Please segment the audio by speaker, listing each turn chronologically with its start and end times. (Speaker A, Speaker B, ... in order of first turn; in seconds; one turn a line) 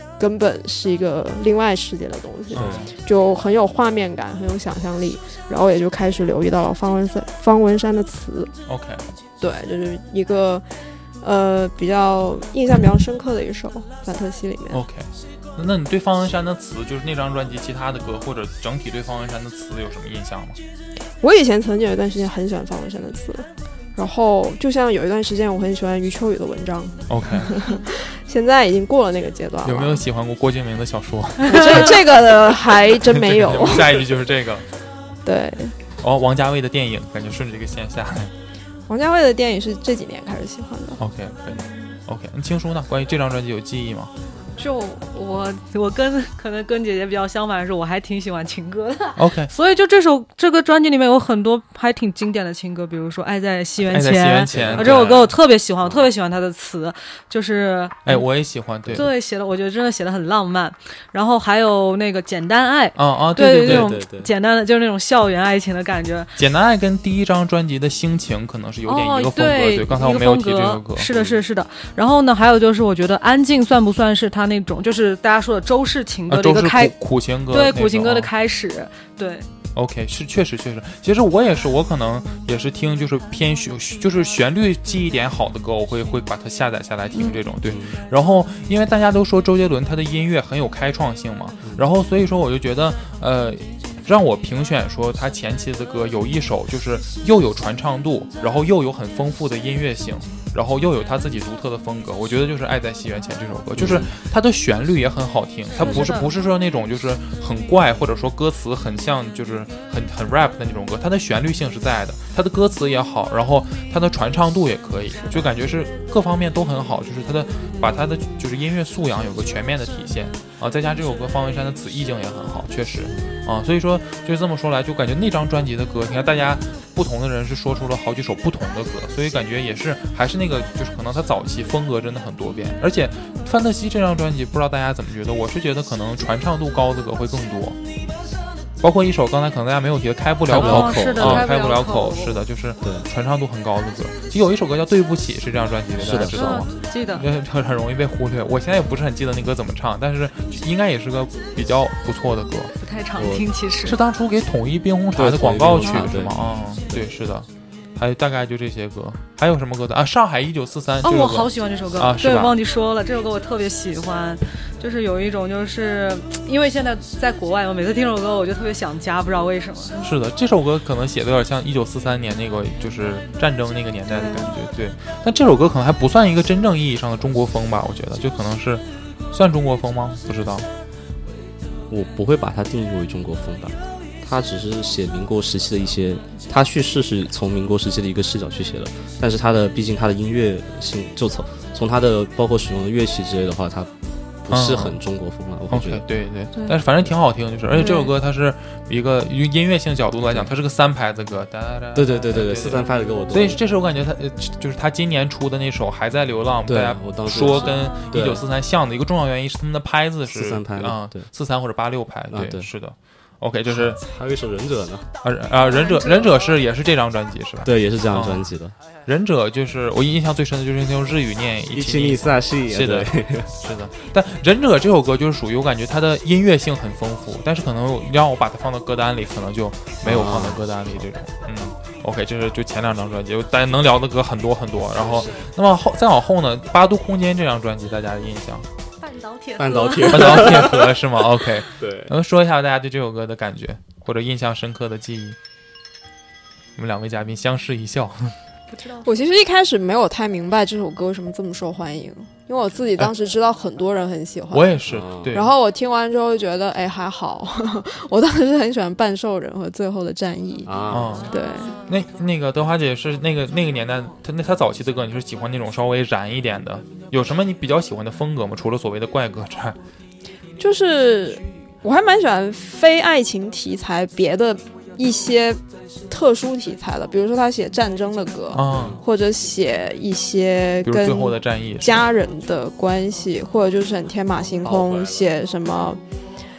Speaker A: 0.2-8.5
Speaker B: 2.5-2.9
Speaker C: 2.5-2.9
Speaker B: 8.7-9.0
Speaker A: 9.4-10.6
Speaker A: 11.2-14.8
Speaker B: 14.7-20.6
Speaker A: 21.2-30.0
Speaker B: 27.1-27.5
Speaker B: 29.6-32.0
Speaker A: 31.5-34.1
Speaker D: 31.5-31.9
Speaker B: 32.9-34.6
Speaker A: 35.2-35.8
Speaker B: 36.0-38.3
Speaker A: 38.9-41.0
Speaker B: 41.0-44.1
Speaker D: 44.6-58.2
Speaker B: 49.2-49.5
Speaker B: 53.8-55.3
Speaker C: 54.5-56.1
Speaker B: 58.0-59.1
Speaker D: 58.9-66.3
Speaker B: 62.9-63.9
Speaker C: 63.6-64.3
Speaker B: 66.4-71.1
Speaker D: 68.8-76.9
Speaker C: 71.1-71.4
Speaker B: 76.3-78.3
Speaker D: 77.5-79.5
Speaker B: 79.7-137.8
Speaker D: 87.1-87.4
Speaker C: 87.7-88.0
Speaker C: 103.8-104.1
Speaker D: 105.7-106.3
Speaker D: 115.1-115.4
Speaker B: 138.8-152.7
Speaker C: 140.5-141.4
Speaker D: 140.5-142.3
Speaker C: 142.8-143.1
Speaker C: 146.0-146.7
Speaker D: 146.3-147.2
Speaker D: 152.7-154.0
Speaker C: 153.2-153.4
Speaker B: 153.8-162.5
Speaker C: 155.1-156.3
Speaker D: 155.8-156.2
Speaker D: 161.0-170.1
Speaker B: 170.0-180.7
Speaker D: 174.1-174.5
Speaker C: 181.9-193.9
Speaker C: 194.4-196.0
Speaker B: 194.5-195.0
Speaker B: 195.7-214.0
Speaker D: 197.7-198.1
Speaker C: 200.3-200.5
Speaker C: 201.9-203.6
Speaker C: 206.7-208.4
Speaker C: 210.3-211.2
Speaker C: 212.3-212.7
Speaker C: 213.7-215.1
Speaker B: 215.2-218.5
Speaker D: 215.6-216.4
Speaker C: 217.6-218.7
Speaker B: 219.1-238.7
Speaker C: 221.7-223.5
Speaker C: 230.0-231.0
Speaker C: 234.9-235.4
Speaker D: 239.0-240.7
Speaker C: 239.6-241.1
Speaker B: 240.1-245.4
Speaker C: 241.7-242.1
Speaker B: 246.8-248.3
Speaker D: 248.7-249.1
Speaker A: 249.0-261.8
Speaker B: 254.5-255.5
Speaker C: 254.8-255.3
Speaker C: 260.6-261.2
Speaker B: 260.9-269.8
Speaker D: 261.4-261.8
Speaker A: 270.6-286.0
Speaker B: 278.5-279.0
Speaker C: 278.6-279.0
Speaker B: 280.8-282.0
Speaker C: 284.6-285.3